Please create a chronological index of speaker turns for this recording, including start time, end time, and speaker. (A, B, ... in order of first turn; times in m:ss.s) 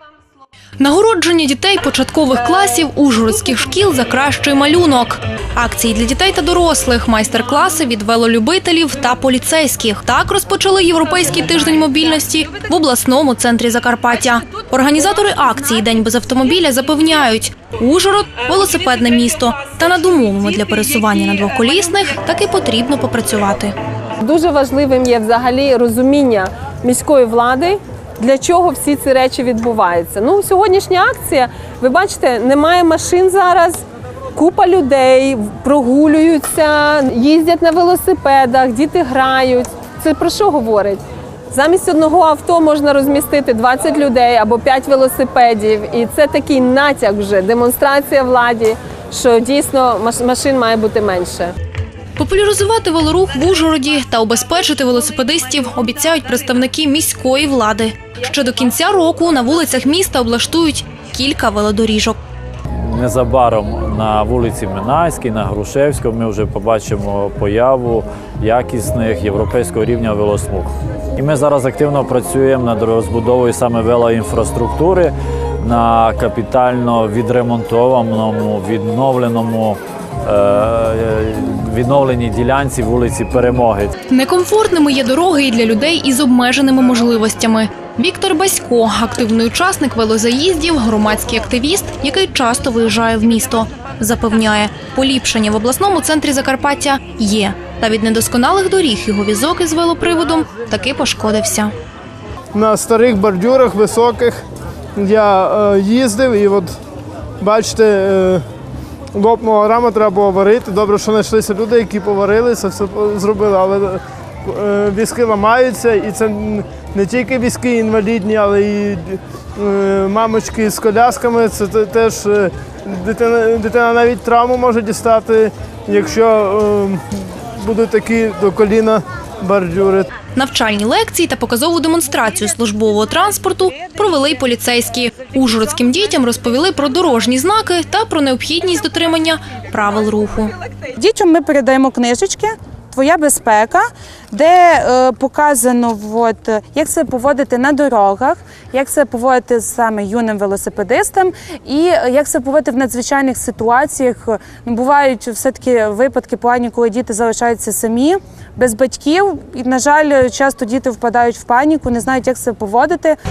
0:00.8-0:23.7 A
0:24.2-0:33.8 B
0:34.3-0:51.5 B
0:52.2-1:02.2 A
1:02.8-1:23.9 C
1:24.1-1:41.7 A
1:42.5-1:44.4 D
1:45.0-1:46.7 D
1:47.4-1:48.4 D
1:49.1-2:10.1 D
2:10.3-2:20.5 A
2:21.0-2:43.2 E